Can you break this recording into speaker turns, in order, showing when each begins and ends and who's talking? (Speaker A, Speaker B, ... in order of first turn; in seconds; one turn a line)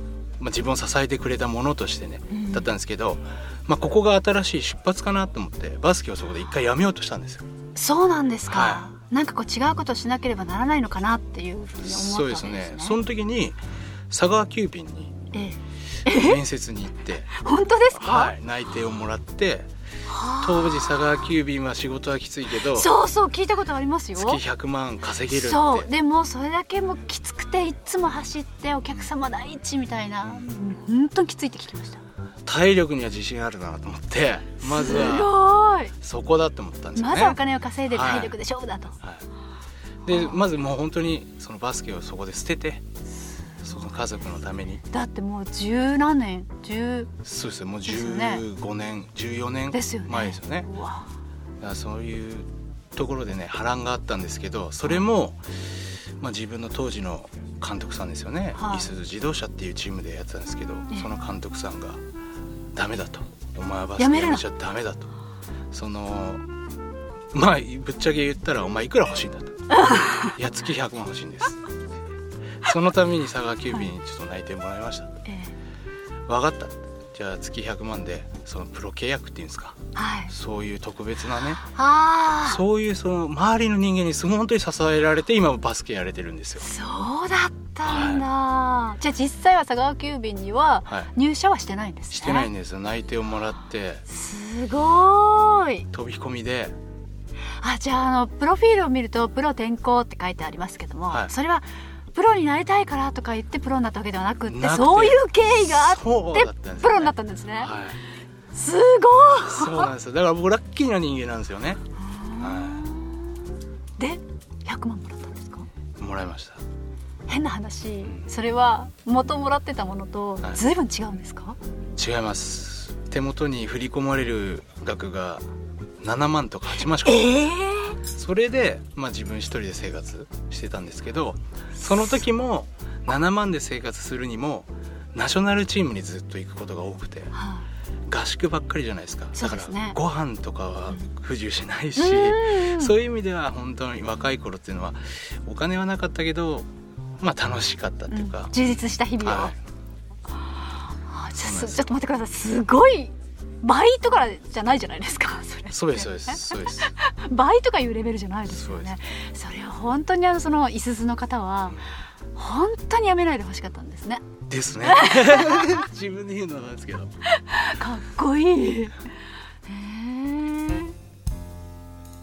Speaker A: 0.4-7.5
Speaker B: 2.3-2.7
Speaker B: 7.8-13.0
Speaker A: 8.5-8.9
Speaker A: 11.8-15.2
Speaker B: 15.3-16.4
Speaker A: 16.1-17.3
Speaker B: 17.3-18.3
Speaker A: 17.9-19.7
Speaker B: 20.1-21.2
Speaker A: 20.4-22.9
Speaker B: 22.7-24.4
Speaker A: 24.1-25.9
Speaker B: 25.3-32.0
Speaker A: 32.5-35.3
Speaker B: 34.6-35.9
Speaker A: 36.0-37.4
Speaker B: 37.0-39.0
Speaker A: 37.9-38.4
Speaker A: 40.0-42.8
Speaker B: 40.0-40.4
Speaker A: 43.6-44.8
Speaker B: 44.9-47.1
Speaker A: 47.2-50.7
Speaker B: 47.8-48.4
Speaker B: 49.7-51.1
Speaker A: 51.6-55.4
Speaker A: 56.2-62.0
Speaker B: 58.5-58.9
Speaker A: 62.7-65.1
Speaker B: 64.0-64.4
Speaker A: 65.7-66.4
Speaker A: 67.3-71.6
Speaker B: 69.8-70.3
Speaker A: 72.6-75.2
Speaker B: 75.2-75.5
Speaker A: 76.3-79.8
Speaker B: 79.9-80.3
Speaker A: 80.3-81.6
Speaker B: 81.7-82.6
Speaker A: 82.4-86.6
Speaker B: 86.6-92.5
Speaker A: 87.8-88.2
Speaker A: 92.1-94.0
Speaker B: 94.1-95.8
Speaker A: 95.9-96.8
Speaker B: 97.6-107.7
Speaker A: 104.5-108.0
Speaker B: 108.5-109.9
Speaker A: 109.4-111.8
Speaker B: 112.0-115.7
Speaker A: 112.4-112.8
Speaker A: 116.0-116.6
Speaker B: 117.3-121.6
Speaker A: 122.0-125.4
Speaker A: 126.0-127.3
Speaker B: 127.0-128.0
Speaker A: 128.1-137.3
Speaker B: 137.3-137.7
Speaker A: 138.1-146.7
Speaker B: 139.3-140.0
Speaker B: 142.0-142.9
Speaker A: 147.2-149.5
Speaker B: 148.1-149.5
Speaker B: 151.0-161.8
Speaker A: 151.3-152.0
Speaker A: 155.7-156.9
Speaker A: 158.5-159.0
Speaker B: 162.3-164.2
Speaker A: 164.5-167.1
Speaker B: 164.8-165.8
Speaker B: 167.2-168.9
Speaker B: 169.7-170.9